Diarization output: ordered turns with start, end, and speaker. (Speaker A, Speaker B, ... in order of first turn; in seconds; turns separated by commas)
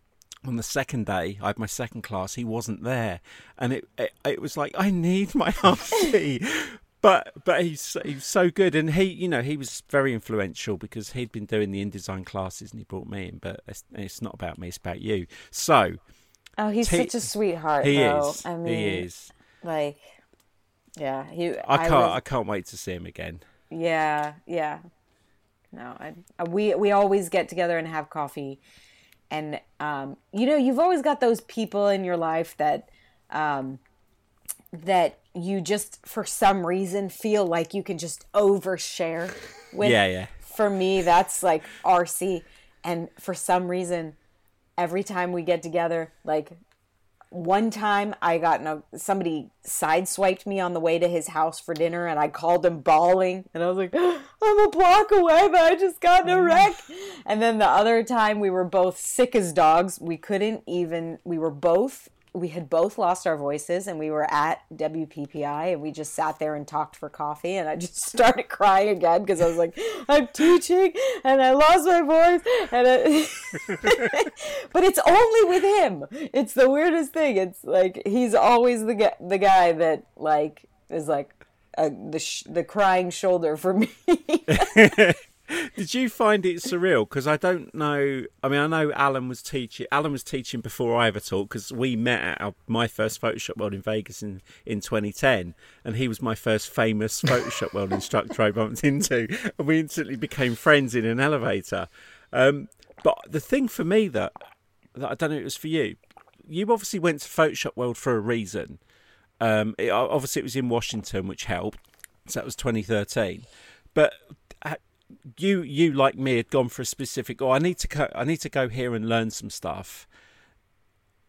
Speaker A: 0.4-16.0, Speaker B: 16.6-19.0, Speaker A: 16.8-17.1, Speaker A: 17.8-19.3, Speaker B: 19.6-20.0, Speaker B: 21.0-22.2, Speaker A: 21.6-23.4, Speaker B: 23.7-24.8, Speaker B: 25.7-28.6, Speaker B: 29.3-33.8, Speaker B: 34.7-44.2, Speaker A: 39.8-40.3, Speaker B: 44.8-46.5, Speaker B: 47.3-84.8, Speaker A: 84.5-104.3, Speaker A: 105.0-108.8, Speaker A: 109.4-120.1